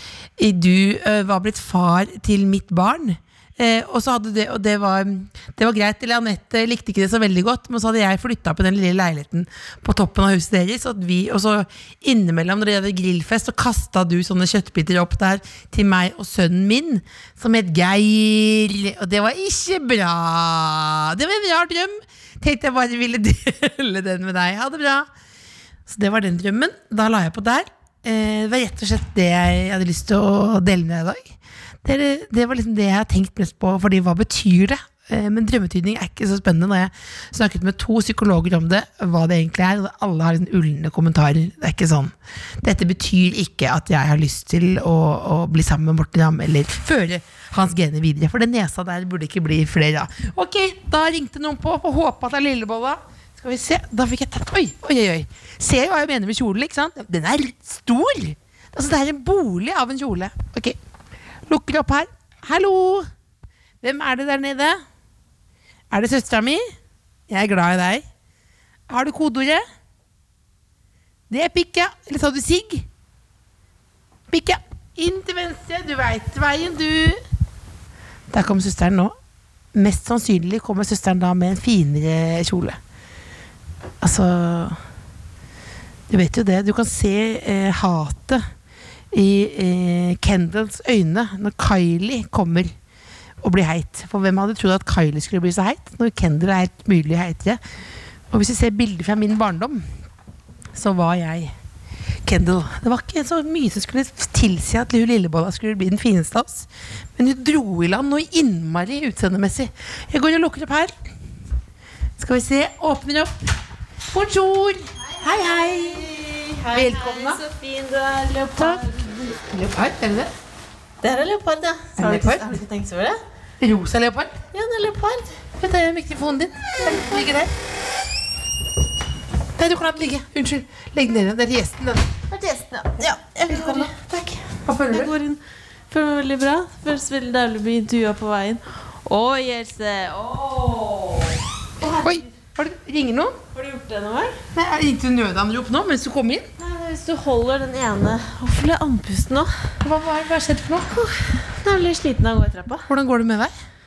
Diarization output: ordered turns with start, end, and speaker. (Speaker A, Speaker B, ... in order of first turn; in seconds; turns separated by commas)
Speaker A: 0.4-25.1, Speaker A: 25.9-60.8, Speaker A: 61.5-63.1, Speaker A: 63.8-64.8, Speaker A: 65.9-66.6, Speaker A: 67.3-68.0, Speaker A: 68.9-69.6, Speaker A: 71.3-72.9, Speaker A: 74.3-77.2, Speaker A: 78.3-79.2, Speaker A: 79.7-82.8, Speaker A: 84.0-84.8, Speaker A: 86.1-88.4, Speaker A: 89.1-92.7, Speaker A: 93.4-97.6, Speaker A: 98.3-99.8, Speaker A: 100.7-101.5, Speaker A: 102.2-110.9, Speaker A: 112.2-113.4, Speaker A: 114.1-116.1, Speaker B: 115.2-119.3, Speaker A: 116.7-117.4, Speaker A: 118.6-120.3, Speaker B: 121.0-123.2, Speaker A: 122.0-122.5, Speaker A: 123.6-124.3, Speaker B: 124.5-125.4, Speaker A: 125.6-127.5, Speaker B: 126.9-127.2, Speaker A: 129.6-132.1, Speaker B: 132.3-142.3, Speaker A: 133.5-133.9, Speaker A: 134.7-135.1, Speaker A: 142.0-143.4, Speaker B: 143.5-144.4, Speaker A: 144.5-146.5, Speaker B: 146.6-149.7, Speaker A: 149.8-150.9, Speaker B: 150.9-152.9, Speaker A: 152.9-153.5